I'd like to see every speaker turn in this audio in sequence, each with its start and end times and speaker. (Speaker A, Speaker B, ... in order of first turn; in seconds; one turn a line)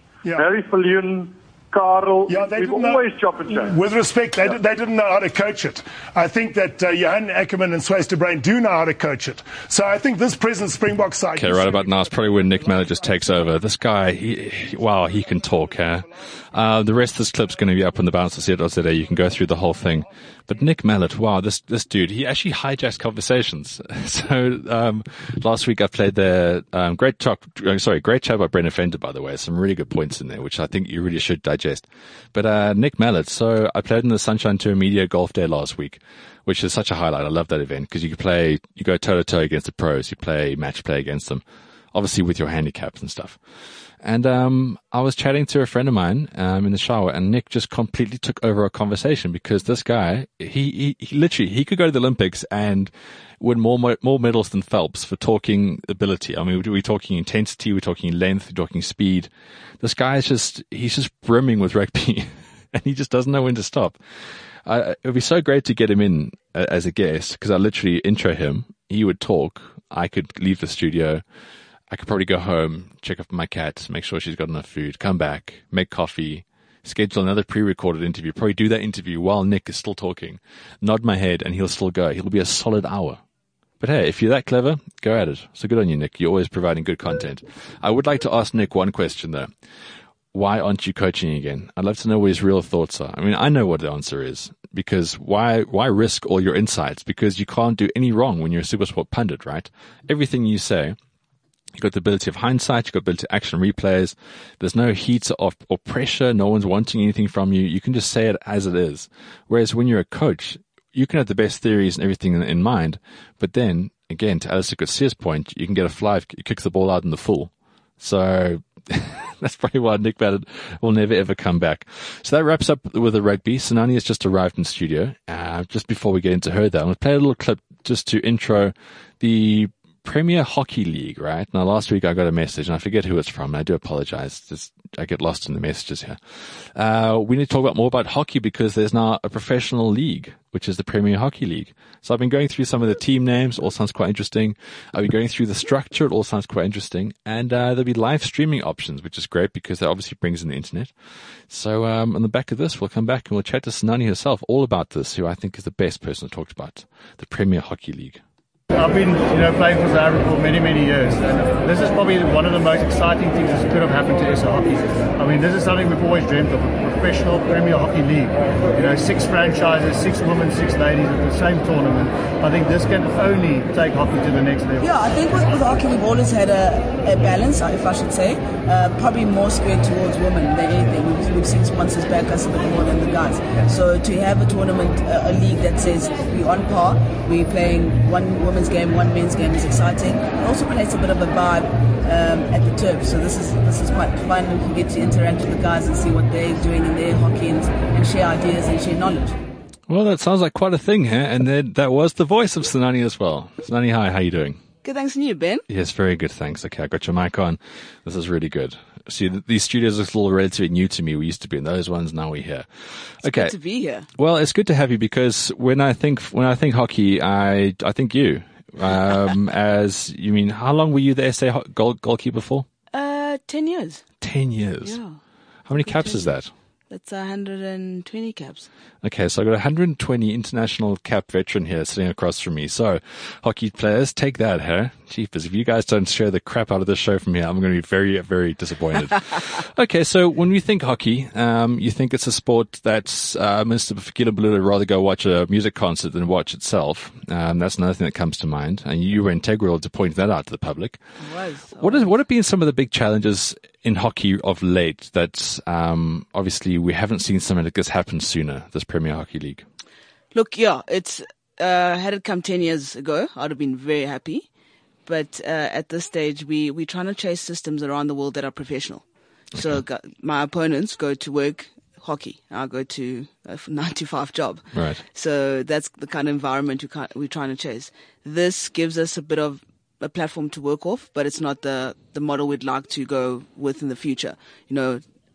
Speaker A: 0.3-3.8
Speaker B: 2.3-11.9
Speaker C: 11.4-43.4
Speaker C: 44.0-64.0
Speaker C: 64.7-71.2
Speaker C: 71.9-83.2
Speaker C: 83.8-89.5
Speaker C: 90.3-101.0
Speaker C: 101.8-136.2
Speaker C: 136.7-150.9
Speaker C: 151.5-158.2
Speaker D: 158.7-174.9
Speaker E: 174.8-199.3
Speaker C: 199.9-204.6
Speaker E: 204.8-205.6
Speaker C: 205.7-212.7
Speaker C: 213.2-213.5
Speaker E: 213.2-214.1
Speaker C: 214.2-222.7
Speaker E: 222.9-224.1
Speaker C: 224.2-225.0
Speaker E: 224.8-225.2
Speaker C: 225.7-226.5
Speaker E: 225.8-226.3
Speaker E: 226.9-228.7
Speaker C: 229.0-251.0
Speaker E: 251.2-252.1
Speaker C: 251.8-259.6
Speaker E: 260.3-264.5
Speaker E: 265.1-285.0
Speaker C: 274.7-275.0